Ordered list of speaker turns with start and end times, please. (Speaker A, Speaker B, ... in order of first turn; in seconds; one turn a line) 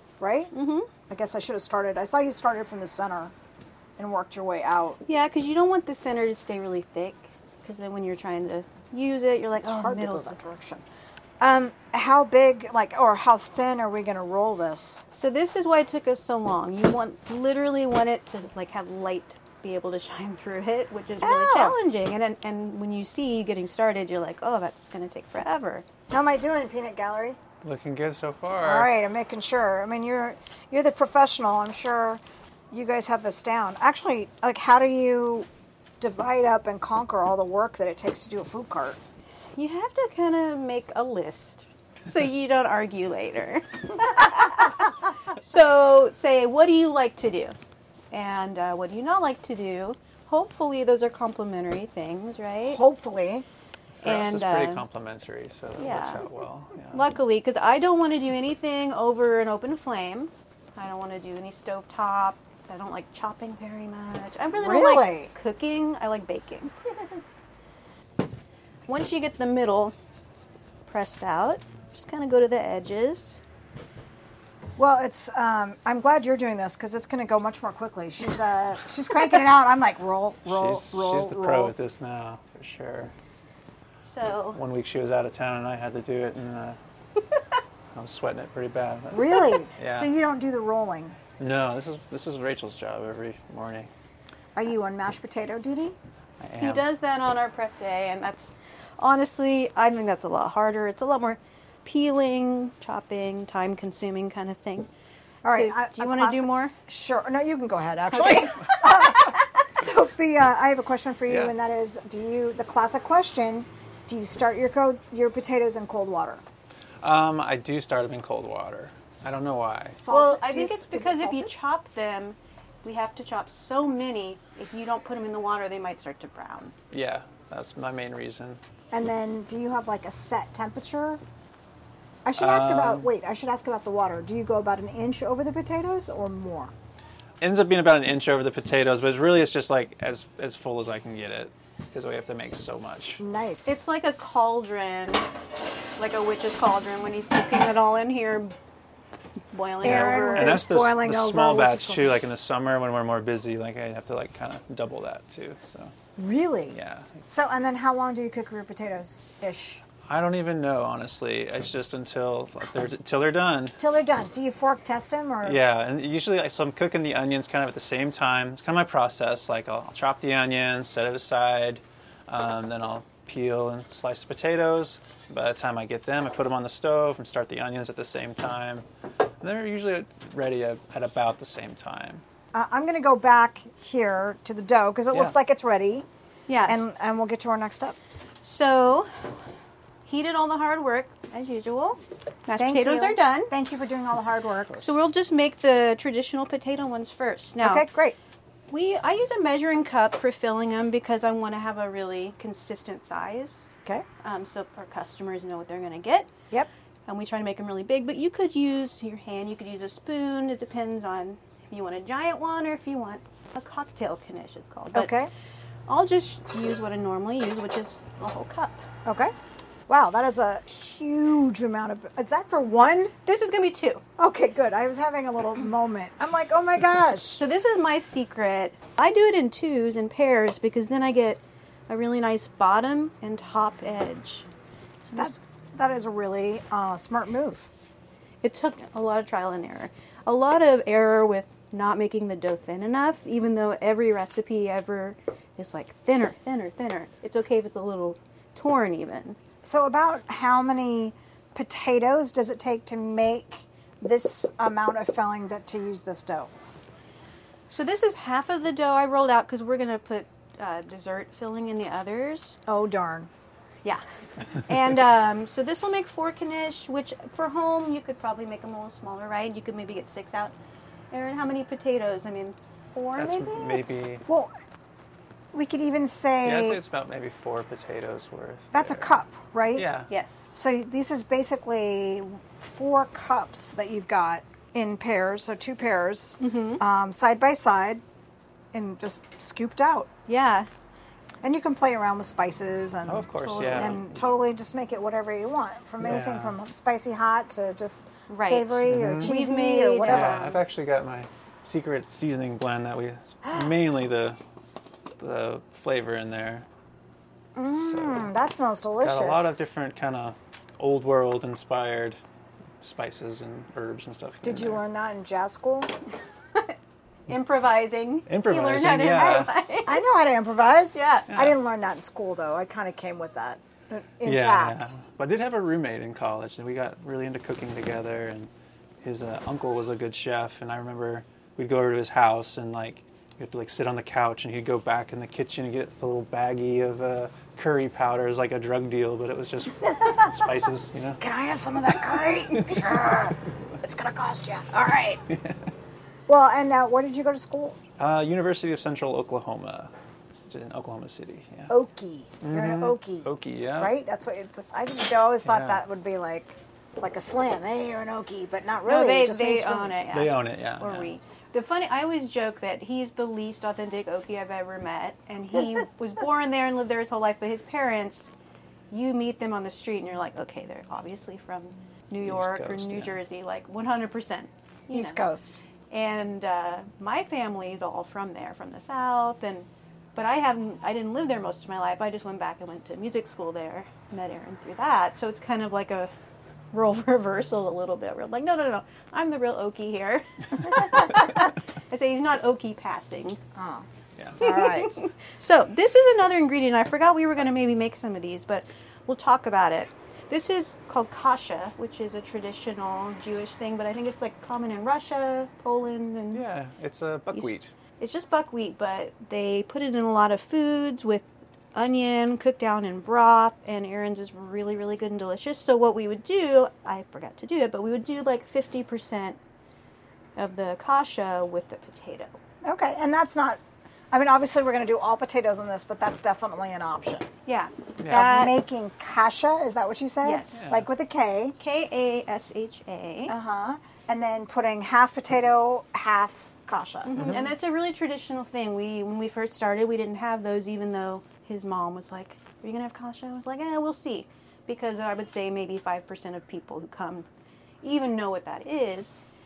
Speaker A: 0.2-0.5
Speaker B: 0.5-0.9
Speaker A: 1.1-3.3
Speaker A: 4.0-5.0
Speaker B: 5.0-10.4
Speaker A: 9.6-10.8
Speaker A: 11.4-15.0
Speaker B: 15.1-25.9
Speaker A: 21.2-21.8
Speaker A: 26.1-27.4
Speaker C: 27.6-28.9
Speaker A: 28.6-35.5
Speaker A: 36.0-39.0
Speaker B: 39.5-47.5
Speaker B: 48.1-52.8
Speaker A: 52.6-53.5
Speaker B: 54.0-54.8
Speaker C: 54.0-57.0
Speaker B: 55.8-56.3
Speaker B: 56.9-66.7
Speaker A: 64.6-65.3
Speaker A: 66.8-67.2
Speaker B: 68.9-69.9
Speaker B: 70.9-73.4
Speaker A: 74.8-81.7
Speaker C: 80.5-83.1
Speaker B: 84.0-84.6
Speaker C: 84.5-86.8
Speaker C: 87.9-90.1
Speaker A: 89.1-91.2
Speaker C: 91.4-93.9
Speaker A: 94.5-96.0
Speaker C: 96.4-96.8
Speaker B: 96.6-104.9
Speaker A: 105.4-116.4
Speaker B: 105.5-106.7
Speaker C: 111.3-111.5
Speaker C: 117.0-120.0
Speaker A: 120.0-121.5
Speaker B: 120.1-126.7
Speaker C: 126.9-128.6
Speaker A: 128.9-131.2
Speaker A: 132.2-136.7
Speaker C: 132.3-133.1
Speaker C: 137.4-143.2
Speaker A: 143.2-143.9
Speaker B: 143.7-145.3
Speaker B: 146.0-148.5
Speaker B: 149.5-150.6
Speaker A: 149.8-152.2
Speaker C: 149.8-155.9
Speaker A: 156.2-159.8
Speaker C: 156.7-157.2
Speaker C: 160.0-163.8
Speaker A: 163.8-165.6
Speaker C: 165.4-178.8
Speaker C: 179.4-182.2
Speaker A: 182.5-186.1
Speaker B: 186.5-186.8
Speaker A: 186.7-187.9
Speaker B: 188.4-189.1
Speaker B: 190.1-193.5
Speaker A: 192.6-194.9
Speaker B: 194.8-197.8
Speaker A: 197.6-198.2
Speaker B: 198.7-203.7
Speaker B: 204.2-206.3
Speaker B: 207.1-215.2
Speaker A: 214.9-215.3
Speaker B: 215.9-218.8
Speaker A: 219.0-219.3
Speaker A: 219.9-223.1
Speaker B: 223.2-224.0
Speaker A: 224.2-227.4
Speaker B: 227.4-234.5
Speaker B: 235.0-235.4
Speaker A: 235.2-237.7
Speaker B: 238.4-249.4
Speaker A: 249.6-256.5
Speaker B: 257.7-262.6
Speaker A: 262.7-263.3
Speaker B: 264.6-270.5
Speaker B: 271.1-274.0
Speaker C: 273.1-274.2
Speaker A: 274.2-274.5
Speaker A: 275.5-276.8
Speaker C: 276.4-279.1
Speaker A: 278.7-279.9
Speaker C: 279.7-280.1
Speaker B: 280.1-280.6
Speaker A: 280.5-288.0
Speaker B: 286.4-286.8
Speaker A: 288.7-290.1
Speaker B: 290.3-290.7
Speaker A: 291.4-300.4
Speaker C: 293.1-294.2
Speaker B: 293.4-294.0
Speaker C: 296.0-296.6
Speaker B: 298.3-300.6
Speaker C: 298.9-299.3
Speaker C: 300.1-304.4
Speaker C: 305.2-306.6
Speaker A: 307.6-309.7
Speaker C: 307.7-308.3
Speaker C: 309.0-312.2
Speaker C: 312.8-314.8
Speaker A: 314.4-315.9
Speaker B: 317.3-320.0
Speaker C: 318.3-319.5
Speaker A: 319.1-324.9
Speaker B: 320.9-321.3
Speaker C: 321.3-321.6
Speaker C: 324.2-328.5
Speaker C: 329.0-341.2
Speaker A: 339.8-340.5
Speaker A: 341.2-345.2
Speaker C: 342.2-343.0
Speaker C: 345.3-345.7
Speaker A: 346.3-347.8
Speaker C: 348.0-349.9
Speaker C: 350.5-351.7
Speaker A: 351.7-360.0
Speaker C: 352.4-353.9
Speaker C: 355.4-355.8
Speaker B: 358.9-368.3
Speaker C: 360.1-361.1
Speaker B: 368.9-375.2
Speaker C: 372.2-373.2
Speaker A: 374.9-375.6
Speaker B: 375.9-386.1
Speaker B: 386.7-393.4
Speaker A: 393.5-393.9
Speaker A: 394.4-395.0
Speaker B: 394.4-406.4
Speaker C: 406.3-407.7
Speaker B: 407.3-419.4
Speaker B: 420.4-422.4
Speaker A: 422.6-427.3
Speaker B: 427.4-428.5
Speaker C: 428.0-428.4
Speaker A: 428.1-431.6
Speaker B: 430.2-430.7
Speaker C: 430.5-430.8
Speaker B: 431.6-433.3
Speaker A: 433.3-437.4
Speaker B: 437.0-447.2
Speaker C: 437.1-437.4
Speaker B: 447.8-449.2